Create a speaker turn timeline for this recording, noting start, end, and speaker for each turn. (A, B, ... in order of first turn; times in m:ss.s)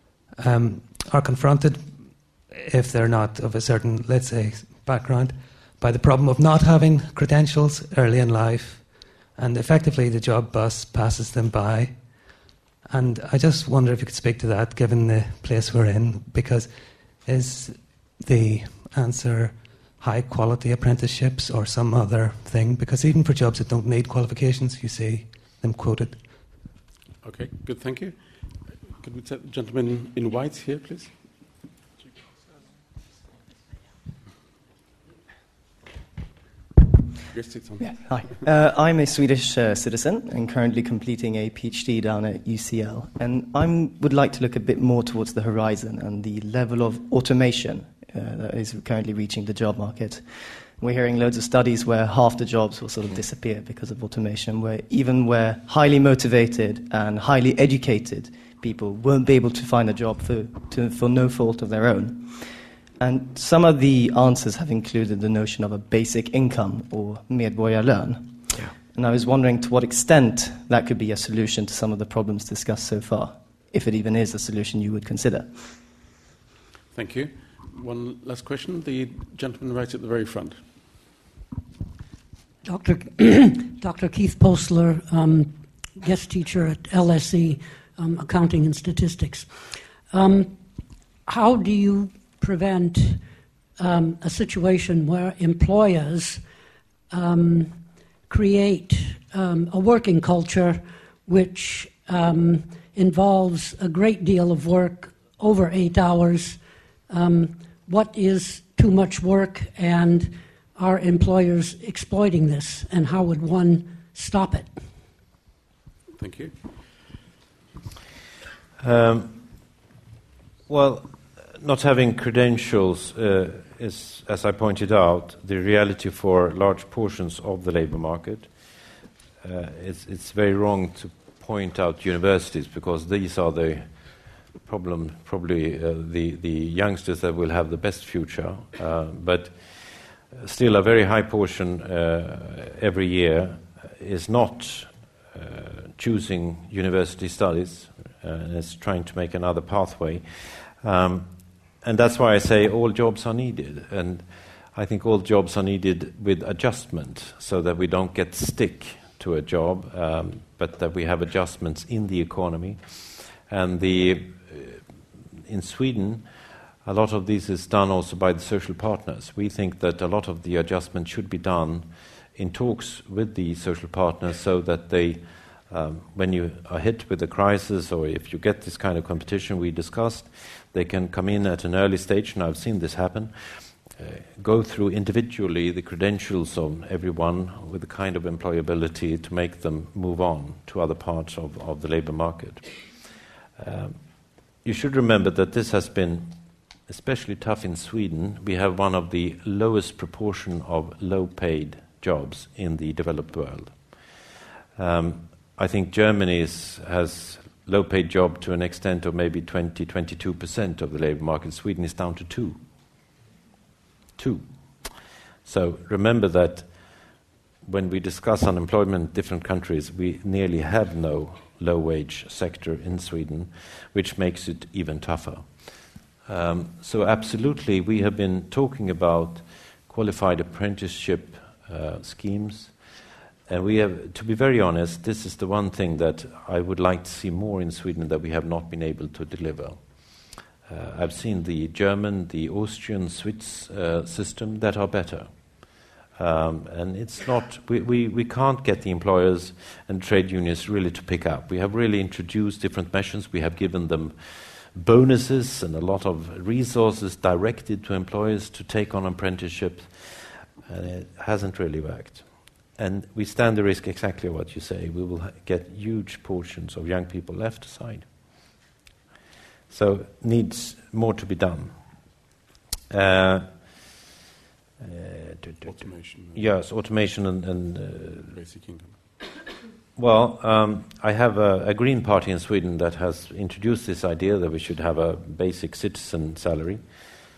0:00.4-0:12.3 A
0:12.9-0:26.3 A
0:27.2-0:28.2 B
0:29.0-0:31.1 B
0:37.3-0:38.4 B
0:37.8-1:02.5 C
1:03.0-1:15.6 C
1:16.9-1:20.6 B
1:22.6-1:29.6 D
1:30.1-1:30.6 D
1:31.2-1:33.2 D
1:33.8-1:36.4 D
1:37.1-1:54.7 D
1:56.2-1:56.5 B
1:58.8-1:59.4 E
2:00.7-2:08.5 E
2:09.4-2:13.9 E
2:14.6-2:19.6 E
2:20.3-2:31.3 E
2:31.8-2:44.8 E
2:45.5-2:46.2 E
2:46.8-3:12.7 E
3:13.6-3:14.0 E
3:14.6-3:16.3 E
3:16.9-3:23.7 E
3:24.8-3:32.6 E
3:34.2-3:34.9 E
3:35.4-3:36.7 E
3:37.6-3:45.5 E
3:46.2-3:52.7 E
3:53.5-3:59.8 E
4:00.7-4:05.3 E
4:06.2-4:22.2 E
4:22.8-4:28.0 E
4:29.7-4:31.7 E
4:32.9-4:33.5 E
4:34.8-4:35.8 E
4:35.6-4:36.4 B
4:36.3-4:38.3 E
4:38.3-4:38.9 B
4:40.0-4:46.8 E